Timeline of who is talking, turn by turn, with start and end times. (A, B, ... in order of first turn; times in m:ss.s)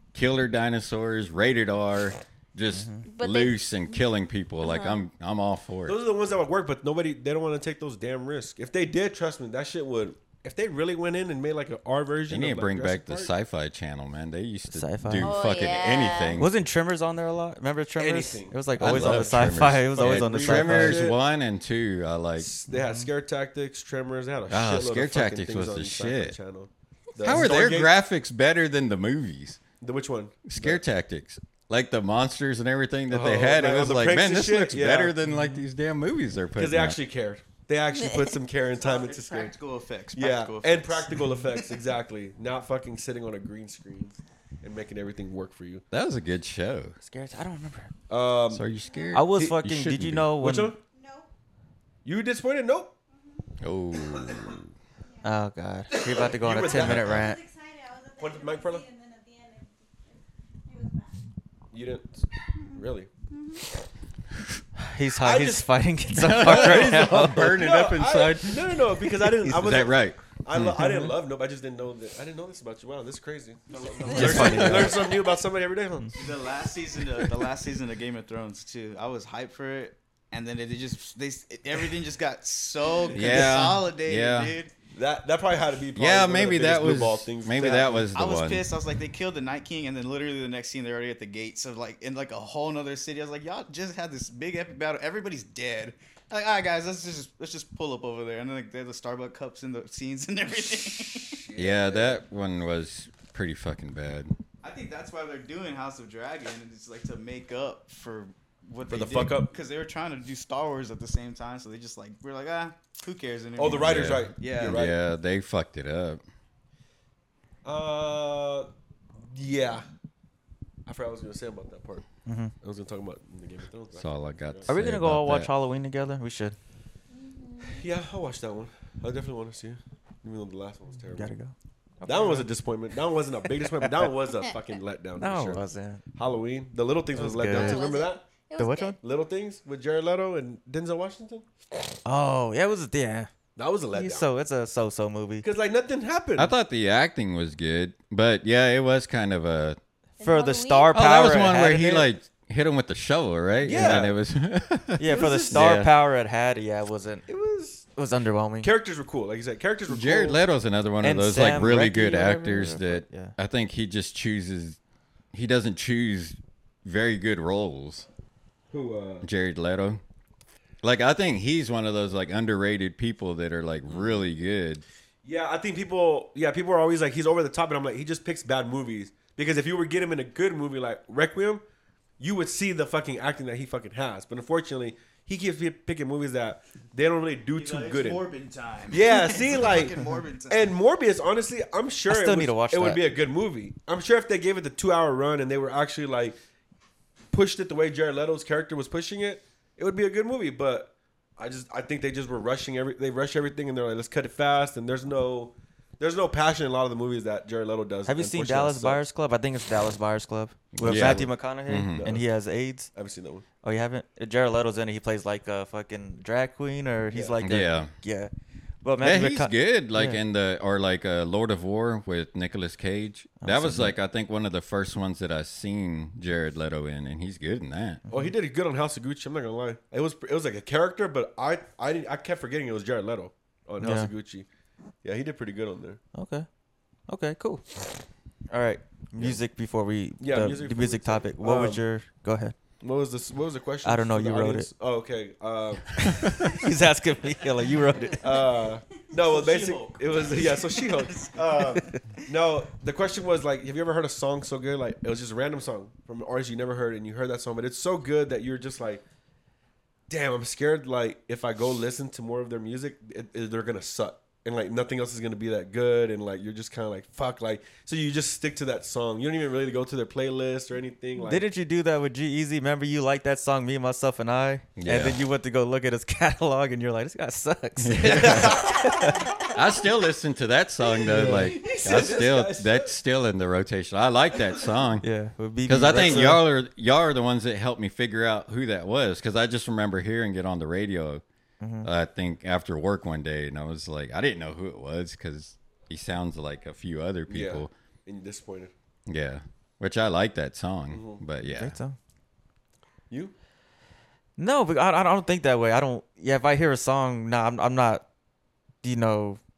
0:00.1-0:06.0 A
0:02.7-0:03.0 B
0:03.1-0:03.6 C
0:04.6-0:05.0 C
0:05.9-0:13.3 D
0:12.3-0:16.5 A
0:14.7-0:15.5 B
0:15.2-0:16.4 C
0:16.3-0:21.1 B
0:18.0-0:21.2 D
0:18.8-0:22.5 A
0:22.4-0:27.9 D
0:22.7-0:23.1 B
0:24.5-0:26.4 A
0:27.2-0:29.6 A
0:29.8-0:30.8 D
0:30.5-0:37.0 A
0:33.1-0:35.2 D
0:35.2-0:35.6 B
0:36.6-0:39.6 D
0:38.0-0:38.4 C
0:38.8-0:41.4 E
0:40.2-0:45.8 D
0:45.9-0:47.0 A
0:47.0-0:47.9 B
0:48.1-0:48.7 D
0:48.5-0:50.3 A
0:48.8-0:49.2 F
0:49.1-0:50.7 B
0:49.3-0:49.6 D
0:50.4-0:50.8 D
0:50.8-0:51.3 F
0:52.0-0:52.9 D
0:53.1-0:53.5 F
0:53.6-0:54.7 A
0:55.0-0:55.4 F
0:55.2-0:57.4 B
0:55.9-0:57.2 D
0:56.8-1:01.3 F
0:58.2-0:58.8 D
1:01.7-1:03.1 D
1:02.6-1:03.6 F
1:04.8-1:07.6 B
1:05.2-1:05.7 D
1:06.2-1:10.8 A
1:06.4-1:16.2 D
1:10.8-1:11.1 B
1:13.7-1:14.9 E
1:14.1-1:15.1 B
1:14.2-1:14.9 A
1:16.2-1:24.7 E
1:23.1-1:24.6 A
1:24.9-1:28.1 D
1:26.0-1:28.7 A
1:28.1-1:41.4 E
1:41.2-1:42.2 D
1:41.6-1:44.4 A
1:44.6-1:54.8 E
1:48.9-1:49.5 D
1:53.6-1:55.0 D
1:53.8-1:56.2 A
1:57.6-1:59.9 D
2:00.9-2:02.1 D
2:02.3-2:02.5 B
2:02.6-2:04.7 D
2:04.0-2:05.5 A
2:04.7-2:06.6 B
2:07.1-2:07.8 C
2:07.6-2:11.3 D
2:11.1-2:12.5 B
2:12.0-2:15.6 D
2:13.6-2:14.1 B
2:15.2-2:16.0 B
2:16.1-2:18.2 D
2:17.2-2:17.8 B
2:17.5-2:19.0 C
2:18.6-2:19.0 B
2:19.0-2:21.5 D
2:22.0-2:23.3 B
2:23.6-2:24.3 D
2:23.9-2:25.5 B
2:25.4-2:26.5 D
2:26.4-2:29.8 A
2:30.2-2:31.0 C
2:30.2-2:32.1 B
2:30.9-2:35.9 A
2:33.6-2:34.2 D
2:33.7-2:34.0 B
2:35.0-2:37.3 B
2:35.0-2:35.8 D
2:37.3-2:37.9 D
2:38.0-2:38.7 B
2:38.6-2:40.4 D
2:39.9-2:44.8 A
2:41.0-2:43.4 B
2:45.3-2:48.1 A
2:48.7-2:49.3 D
2:49.2-2:50.0 A
2:50.8-2:54.8 A
2:53.9-2:54.2 D
2:55.2-3:01.6 D
3:02.2-3:08.2 D
3:07.6-3:10.7 E
3:08.9-3:16.4 D
3:12.1-3:13.0 B
3:17.3-3:29.0 D
3:28.1-3:32.9 B
3:30.8-3:32.1 A
3:30.8-3:31.3 D
3:32.0-3:32.3 D
3:32.9-3:33.4 D
3:33.6-3:38.3 B
3:37.1-3:37.4 D
3:37.4-3:37.9 A
3:38.8-3:40.2 B
3:39.0-3:48.0 A
3:43.4-3:44.0 B
3:48.1-3:54.5 D
3:53.8-3:54.1 B
3:55.0-3:56.0 D
3:56.1-3:56.5 B
3:57.1-3:57.9 B
3:58.5-4:02.6 B
4:00.2-4:01.8 D
4:02.8-4:06.3 D
4:03.8-4:04.7 B
4:06.1-4:08.2 B
4:08.1-4:19.0 D
4:09.2-4:12.0 E
4:20.1-4:31.5 D
4:31.2-4:39.2 B
4:34.8-4:35.2 A
4:37.8-4:38.7 A
4:38.0-4:39.2 D
4:39.5-4:45.1 A
4:41.0-4:42.9 D
4:41.2-4:41.5 B
4:45.0-4:46.4 B
4:45.6-4:51.2 A
4:45.8-4:46.4 D
4:51.6-4:51.9 B
4:51.8-4:57.7 A
4:57.3-4:58.7 D
4:59.1-5:01.8 A
5:00.9-5:01.2 D
5:01.4-5:02.0 B
5:04.4-5:08.0 B
5:08.8-5:09.4 B